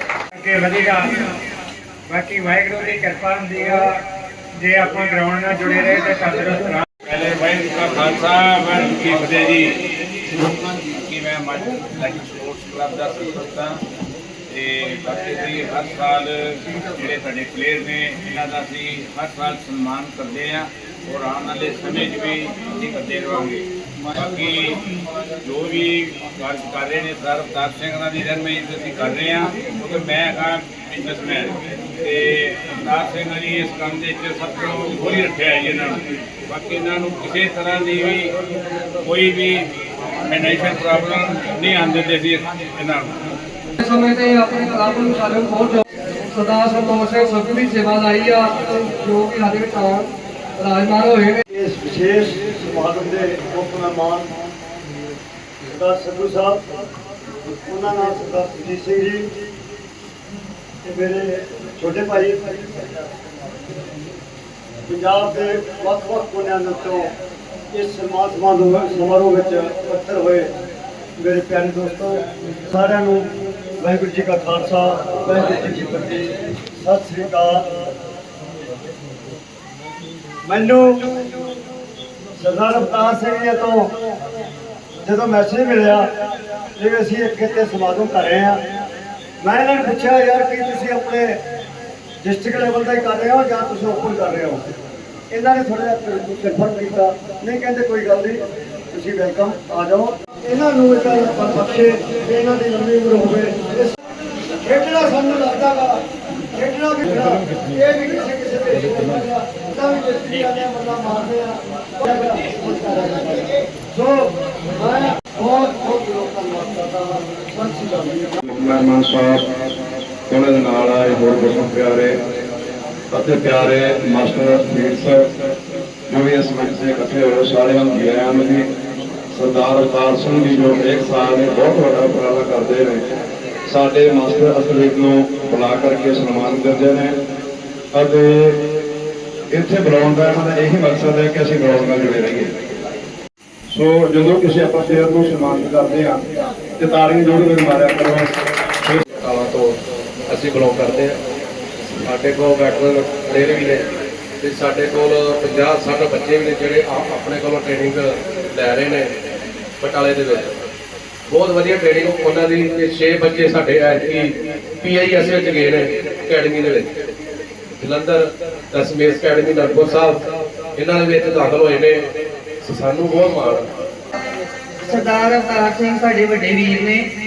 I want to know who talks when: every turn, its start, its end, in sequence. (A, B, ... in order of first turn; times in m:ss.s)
0:00.3-0:01.3 A
0:02.1-0:04.0 A
0:04.5-0:06.8 A
0:07.1-0:09.8 B
0:10.6-0:13.8 B
0:14.5-0:24.8 B
0:25.4-0:38.3 B
0:39.0-0:39.7 B
0:40.2-0:43.2 B
0:43.8-0:51.4 C
0:51.5-0:54.3 D
0:55.7-0:56.6 D
0:57.7-0:59.3 D
1:00.8-1:02.5 D
1:04.9-1:07.1 D
1:07.7-1:10.5 D
1:11.2-1:13.3 D
1:13.8-1:17.6 D
1:20.5-1:21.0 D
1:22.4-1:23.9 D
1:25.0-1:26.1 D
1:26.8-1:28.6 D
1:29.4-1:31.4 D
1:32.2-1:34.6 D
1:35.3-1:44.0 D
1:44.6-1:46.0 D
1:46.5-1:58.4 D
1:58.4-1:59.5 E
2:00.3-2:02.2 E
2:03.1-2:05.3 E
2:06.1-2:08.7 E
2:09.3-2:13.0 E
2:13.7-2:17.2 E
2:17.9-2:18.6 E
2:19.5-2:22.5 E
2:23.7-2:26.2 E
2:26.8-2:28.3 E
2:29.2-2:29.7 F
2:30.3-2:31.2 F
2:31.9-2:33.8 F
2:34.4-2:39.2 F
2:39.8-2:40.6 F
2:41.3-2:47.0 F
2:47.8-2:50.2 F
2:50.8-2:53.7 F
2:54.9-2:57.1 G